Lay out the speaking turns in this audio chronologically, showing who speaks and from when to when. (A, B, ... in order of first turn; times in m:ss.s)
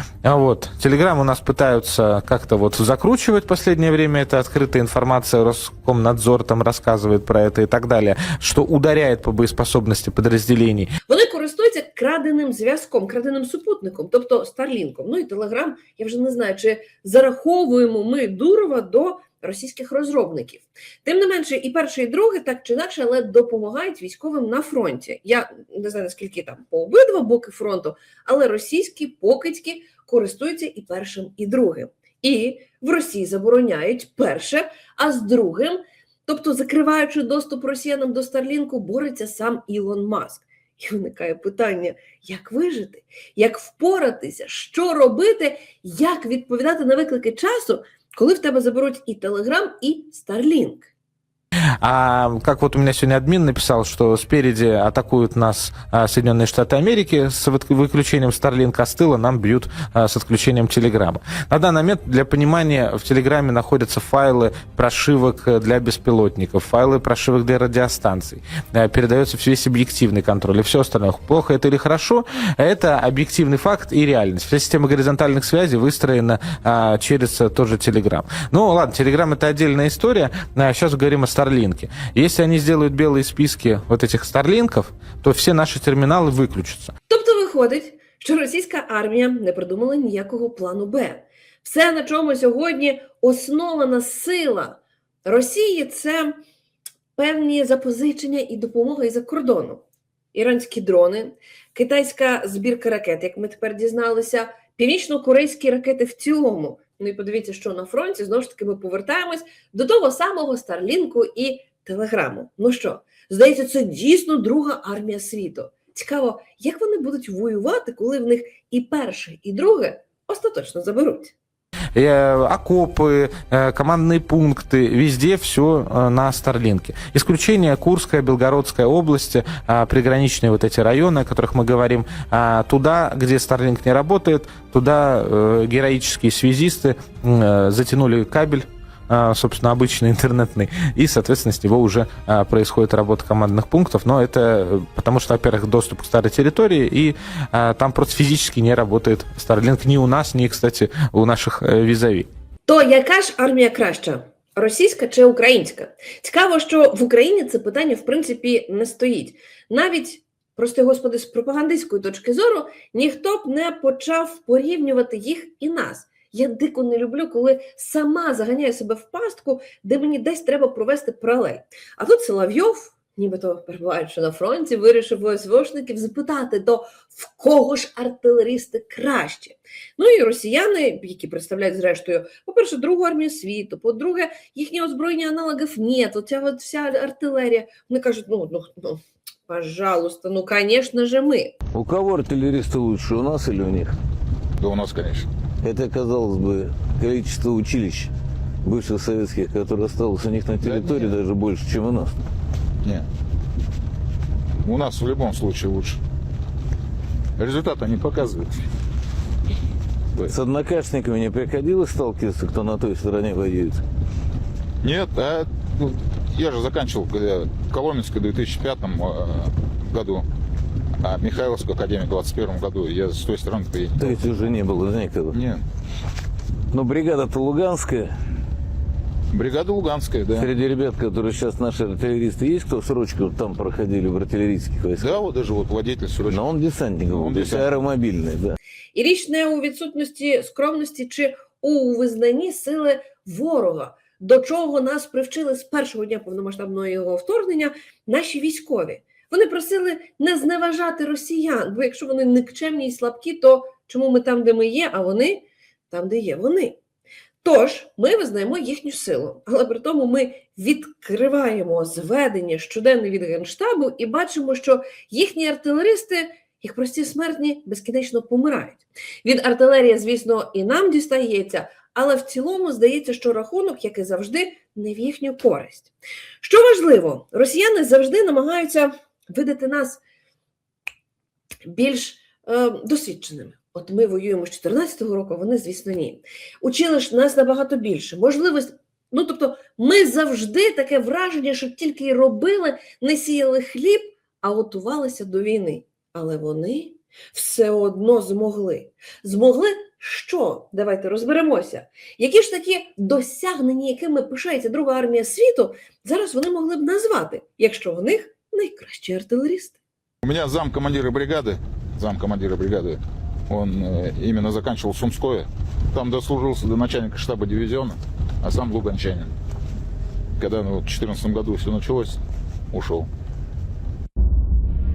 0:00.2-0:10.9 A
0:11.1-0:50.9 B
0:51.8-1:26.9 A
1:27.1-1:36.4 B
1:37.2-2:01.3 B
2:02.0-2:32.3 A
2:32.7-3:11.6 B
3:11.7-3:14.0 C
3:14.6-3:15.3 D
3:15.6-3:18.1 C
3:18.6-3:22.2 C
3:20.6-3:21.2 D
3:24.6-3:26.0 D
3:27.4-3:28.6 D
3:30.2-3:33.8 C
3:34.8-3:40.2 D
3:41.0-3:44.2 D
3:44.0-3:45.4 C
3:45.3-3:45.6 D
3:46.7-3:48.1 C
3:49.3-3:50.5 D
3:50.3-3:55.2 C
3:55.0-3:56.5 D
3:56.3-3:58.6 C
3:57.1-3:57.7 D
3:58.9-4:16.8 B
4:17.4-4:40.0 B
4:41.7-5:09.8 B
5:10.2-5:19.3 D
5:20.4-5:22.2 D
5:22.7-5:23.1 D